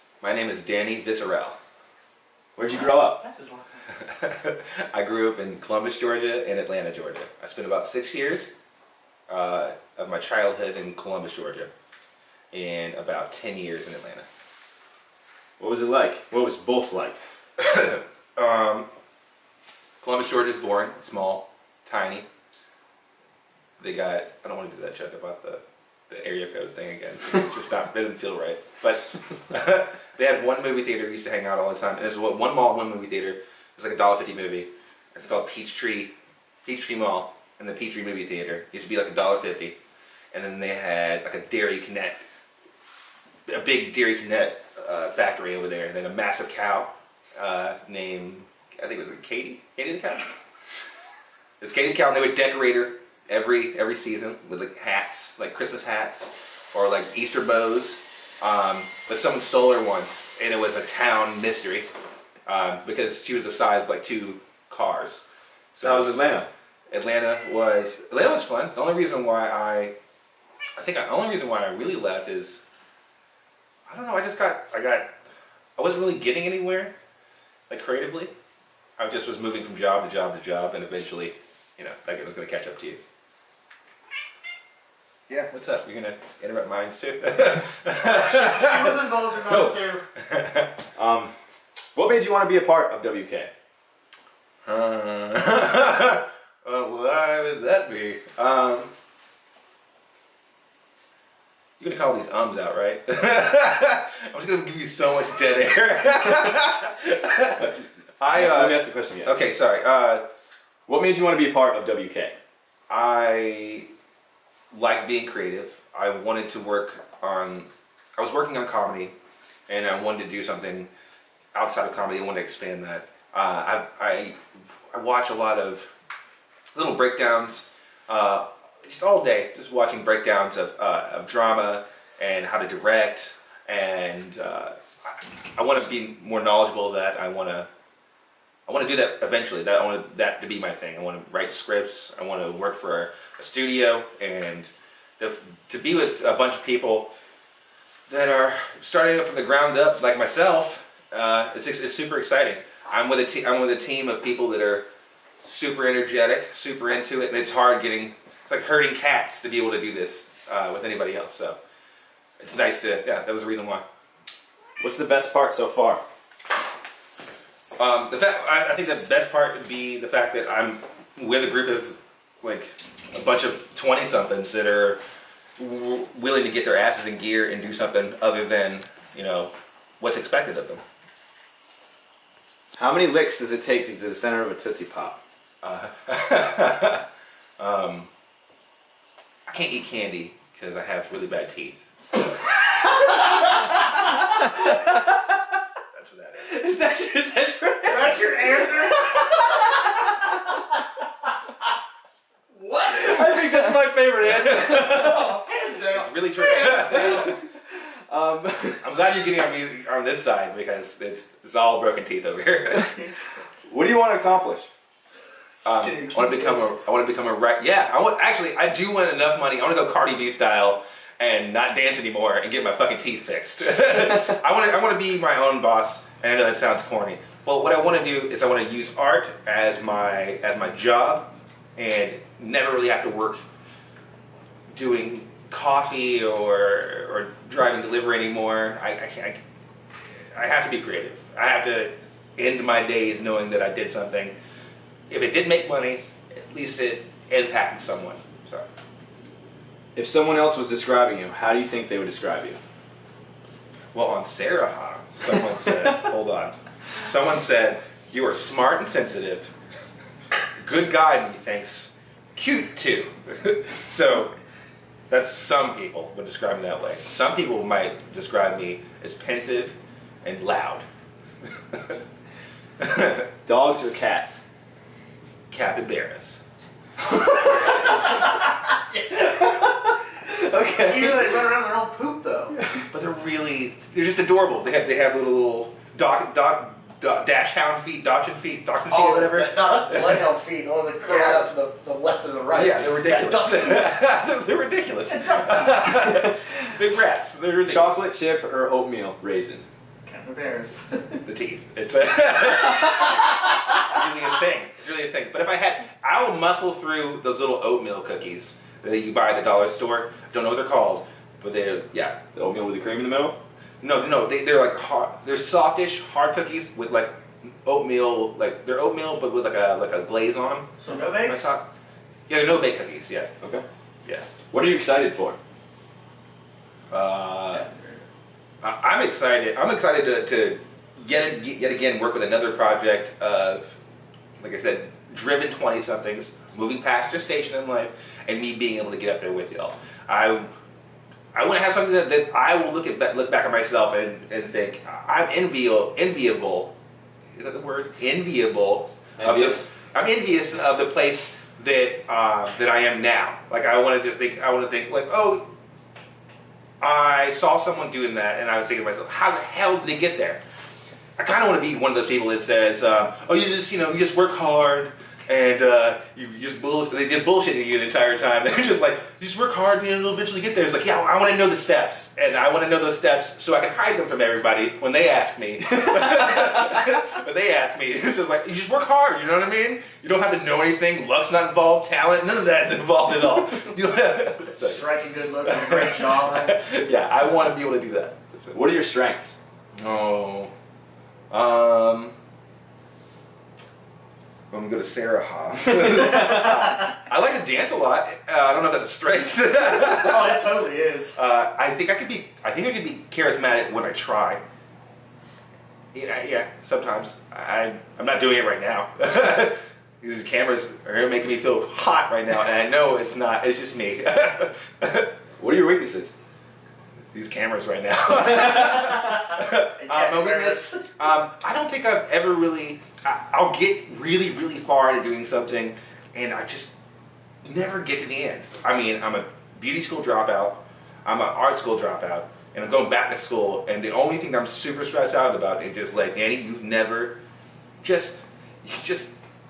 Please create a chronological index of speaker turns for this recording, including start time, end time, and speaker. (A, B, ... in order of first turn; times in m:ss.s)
0:00.2-0:01.6 A
0:02.6-0:03.2 B
0:02.7-0:03.9 C
0:04.0-0:08.5 A
0:09.3-0:11.7 A
0:12.5-0:14.3 A
0:15.6-0:17.2 B
0:17.6-0:18.9 A
0:20.0-0:22.3 A
0:23.8-0:36.1 A
0:36.6-0:39.8 A
0:40.3-0:42.2 A
0:43.5-0:50.3 A
0:51.6-1:01.9 A
1:02.5-1:06.2 A
1:05.8-1:06.5 B
1:06.9-1:09.9 A
1:10.8-1:12.6 A
1:13.9-1:15.1 A
1:15.8-1:16.9 A
1:17.7-1:18.3 A
1:19.0-1:23.0 A
1:25.3-1:29.0 A
1:28.1-1:30.0 C
1:29.4-1:29.8 B
1:30.2-1:30.7 A
1:31.0-1:31.3 B
1:31.9-1:33.5 B
1:34.6-1:38.9 A
1:41.8-1:50.3 A
1:48.3-1:49.4 B
1:50.9-1:52.4 B
1:52.9-1:53.9 A
1:54.7-1:59.1 A
1:59.7-2:00.9 A
2:01.5-2:04.4 A
2:04.9-2:05.9 A
2:06.7-2:17.7 A
2:18.7-2:27.1 A
2:28.1-2:34.9 A
2:35.4-2:41.6 A
2:42.4-2:43.8 A
2:44.8-2:46.0 B
2:47.8-2:55.0 A
2:55.6-3:00.8 A
3:02.8-3:05.2 B
3:05.6-3:07.0 A
3:07.6-3:08.1 A
3:09.5-3:11.8 A
3:14.2-3:15.2 B
3:15.9-3:16.5 A
3:16.4-3:19.2 B
3:17.9-3:19.7 C
3:22.5-3:23.6 C
3:22.9-3:25.4 B
3:24.6-3:27.3 C
3:25.8-3:27.4 A
3:26.6-3:29.0 B
3:28.8-3:33.0 A
3:32.9-3:33.2 C
3:33.7-3:34.7 B
3:35.6-3:53.4 A
3:35.8-3:36.7 C
3:54.7-3:59.4 A
4:00.3-4:04.3 A
4:05.1-4:08.7 A
4:09.9-4:12.6 B
4:13.9-4:19.5 A
4:20.6-4:24.4 A
4:25.1-4:30.8 A
4:32.8-4:33.2 A
4:33.4-4:34.4 B
4:35.5-4:36.4 A
4:37.1-4:38.3 B
4:37.7-4:38.1 C
4:39.1-4:41.4 B
4:40.7-4:42.5 C
4:42.9-4:50.2 A
4:48.9-4:54.0 C
4:51.0-4:51.5 A
4:52.5-4:58.0 A
4:55.1-4:56.0 C
4:57.6-4:59.6 B
5:00.0-5:01.2 C
5:01.2-5:12.2 A
5:12.3-5:13.4 B
5:13.8-5:20.7 A
5:20.8-5:21.5 C
5:21.2-5:21.7 A
5:22.3-5:23.3 A
5:24.5-5:25.4 B
5:26.9-5:27.6 A
5:27.5-5:28.0 C
5:28.6-5:33.8 A
5:34.4-5:40.5 A
5:41.3-5:46.7 A
5:47.3-5:55.5 A
5:49.2-5:49.7 B
5:56.8-6:00.4 A
6:01.2-6:24.9 A
6:24.6-6:26.6 C
6:25.4-6:28.5 A
6:28.5-6:29.3 B
6:29.8-6:30.5 A
6:31.3-6:32.1 A
6:34.5-6:40.4 A
6:39.6-6:41.2 C
6:41.1-6:44.4 A
6:45.9-6:55.1 A
6:55.4-6:56.1 B
6:57.1-7:06.7 A
6:59.2-7:00.9 C
7:07.4-7:17.2 A
7:17.8-7:19.1 A